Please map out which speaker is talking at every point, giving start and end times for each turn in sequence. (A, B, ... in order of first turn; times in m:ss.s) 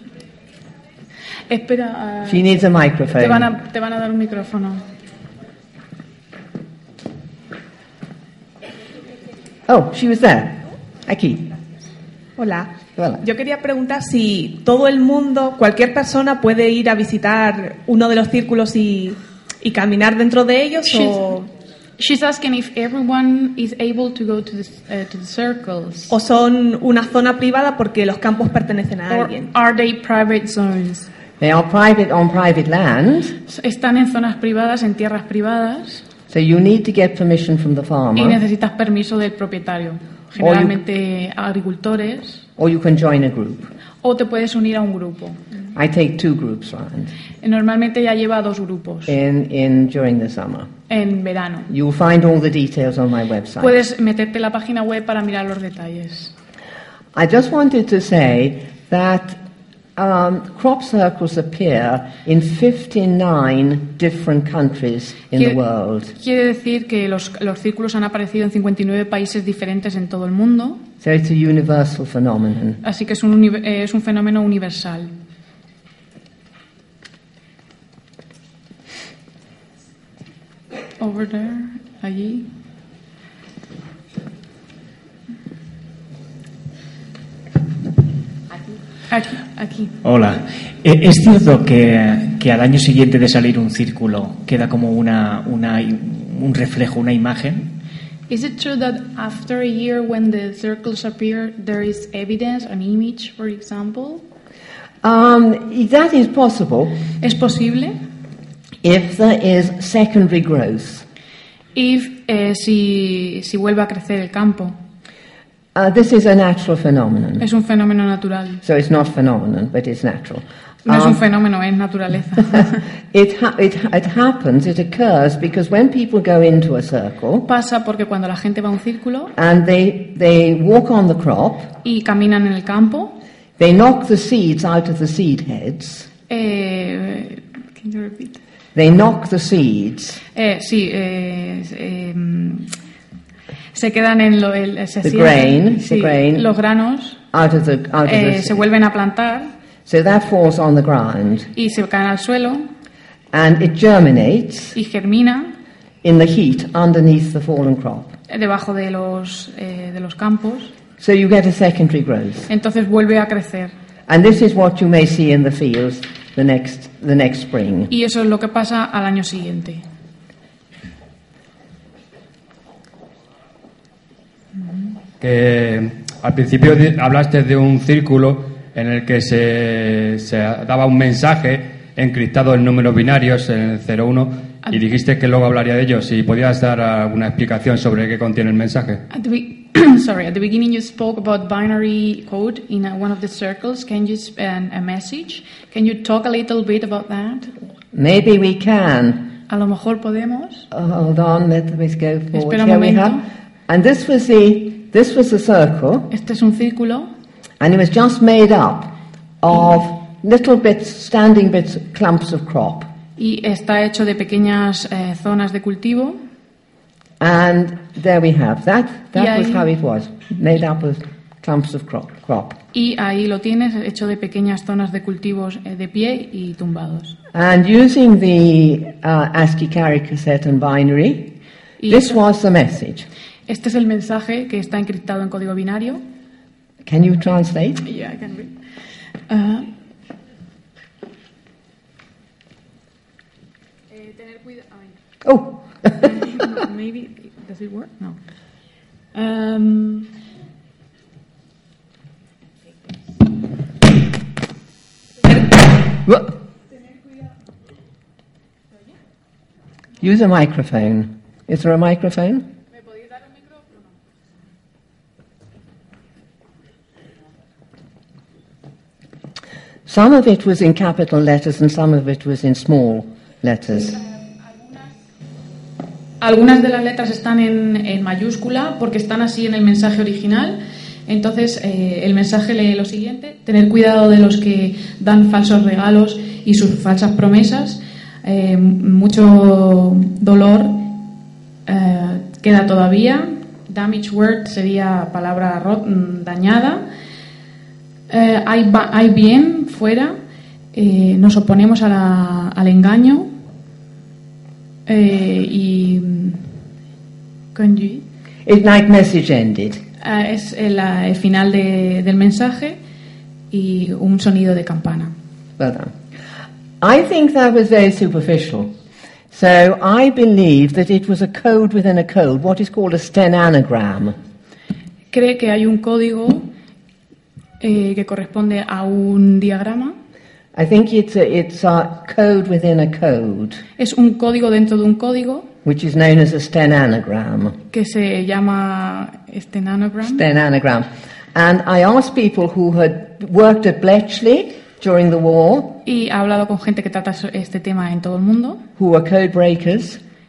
0:01.5-0:02.4 A
0:02.2-0:03.5 B
0:03.1-0:04.8 A
0:09.7-0:11.5 B
0:12.4-0:21.5 C
0:13.0-0:13.2 B
0:20.9-0:21.2 A
0:22.0-0:26.1 A
0:26.1-0:29.5 C
0:29.1-0:31.1 A
0:31.4-0:33.4 B
0:33.5-0:36.0 A
0:36.3-0:38.4 B
0:38.2-0:42.4 A
0:40.4-0:40.8 B
0:42.6-0:43.7 B
0:44.0-0:45.4 A
0:45.7-0:47.1 B
0:47.4-0:49.2 A
0:49.1-0:50.7 B
0:50.9-0:51.7 A
0:51.7-0:53.8 B
0:53.6-0:56.3 A
0:57.1-0:59.4 B
1:00.0-1:06.1 B
1:06.1-1:10.8 A
1:11.0-1:12.8 B
1:12.8-1:15.1 A
1:21.0-1:22.5 A
1:29.1-1:29.9 A
1:30.0-1:37.7 D
1:38.3-1:44.2 A
1:45.0-1:47.0 B
1:47.2-1:48.0 A
1:48.8-1:51.1 B
1:51.8-1:54.8 A
1:55.8-1:57.5 B
1:57.4-1:58.6 A
1:58.6-2:01.2 B
2:00.9-2:02.8 A
2:02.6-2:07.5 B
2:07.4-2:09.3 A
2:09.4-2:11.7 B
2:11.8-2:13.2 A
2:13.6-2:16.1 B
2:16.3-2:18.4 A
2:18.8-2:20.2 B
2:20.3-2:22.7 A
2:23.7-2:27.2 A
2:25.0-2:26.5 B
2:27.3-2:28.6 B
2:28.0-2:29.5 A
2:29.9-2:31.5 B
2:31.6-2:32.7 A
2:33.3-2:34.8 B
2:34.7-2:35.5 A
2:36.0-2:38.2 B
2:38.3-2:40.7 A
2:41.0-2:42.5 B
2:42.5-2:43.7 A
2:44.1-2:47.9 B
2:47.9-2:49.8 A
2:55.2-3:09.0 E
3:09.1-3:17.5 A
3:17.9-3:19.3 B
3:19.5-3:20.7 A
3:20.7-3:26.1 B
3:22.3-3:23.2 A
3:26.1-3:27.1 A
3:27.6-3:32.9 B
3:33.2-3:36.2 A
3:37.2-3:42.6 B
3:39.2-3:39.7 A
3:42.7-3:47.2 A
3:47.3-3:51.4 B
3:51.8-3:52.2 A
3:51.9-3:53.1 B
3:53.5-3:56.0 A
3:56.8-3:57.8 B
3:57.8-3:58.6 A
3:59.3-3:59.7 A
4:03.9-4:05.0 A
4:05.2-4:06.1 B
4:06.0-4:08.2 A
4:09.1-4:10.1 A
4:16.0-4:16.3 B
4:20.0-4:22.5 B
4:29.9-4:34.0 B
4:36.2-4:51.0 A
4:51.7-4:56.9 A
4:58.1-5:00.2 A
5:00.7-5:03.3 A
5:04.9-5:06.4 A
5:07.6-5:08.0 A
5:08.5-5:09.8 B
5:10.0-5:12.8 A
5:13.5-5:15.1 A
5:15.6-5:16.0 B
5:16.8-5:18.8 B
5:19.3-5:24.2 B
5:25.1-5:26.5 A
5:27.6-5:30.0 A
5:30.5-5:33.6 B
5:33.8-5:35.5 A
5:35.6-5:37.6 B
5:37.7-5:40.2 A
5:40.0-5:45.8 B
5:45.8-5:48.6 A
5:48.8-5:50.0 B